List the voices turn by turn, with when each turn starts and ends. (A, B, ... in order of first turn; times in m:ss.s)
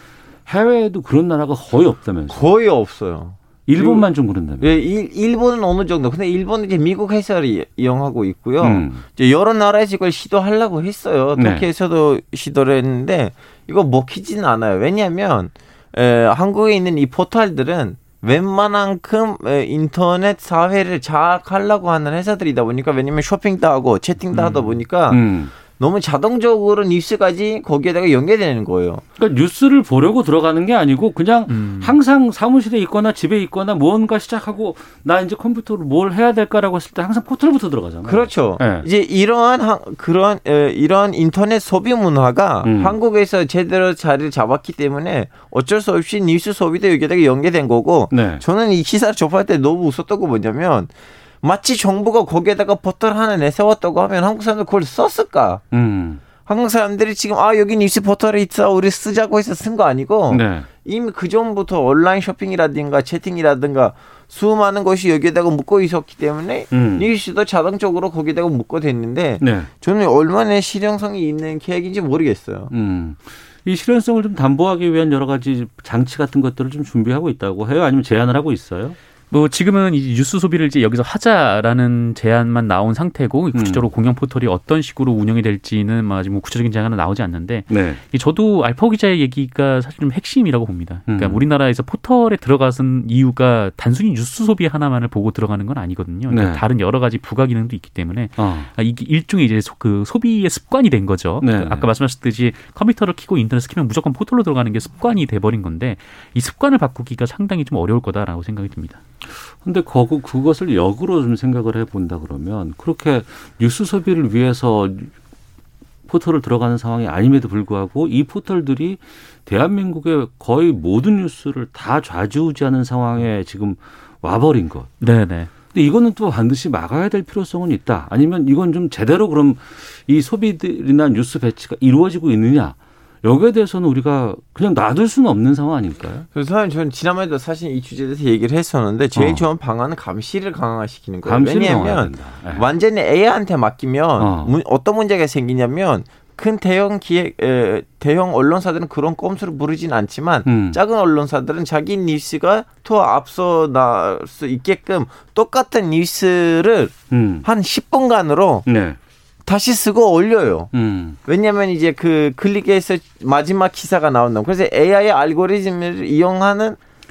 0:00.4-0:02.5 A
0:02.3-0:29.0 B
0:03.6-0:04.7 A
0:08.6-0:09.0 A
0:11.4-0:11.6 A
0:24.3-0:25.5 A
0:29.2-0:38.8 A
0:31.5-0:32.0 C
0:38.0-0:55.6 B
0:42.6-0:42.9 A
0:48.1-0:48.4 A
0:55.7-0:56.2 A
0:56.4-1:12.7 B
1:00.3-1:00.6 A
1:06.7-1:07.1 A
1:09.4-1:09.7 A
1:12.7-1:19.0 A
1:19.3-1:49.0 C
1:23.5-1:23.8 A
1:27.7-1:28.0 A
1:31.1-1:31.5 A
1:36.3-1:36.6 A
1:38.4-1:38.7 A
1:41.4-1:41.9 A
1:49.3-1:55.1 A
1:56.1-2:04.9 A
2:05.0-2:05.5 C
2:05.6-2:16.2 A
2:16.3-2:38.6 B
2:19.2-2:19.4 A
2:21.2-2:22.7 A
2:24.2-2:24.5 A
2:30.4-2:30.8 A
2:37.1-2:37.4 A
2:38.6-2:39.0 A
2:39.4-2:40.7 B
2:40.7-2:41.2 A
2:41.2-2:46.8 B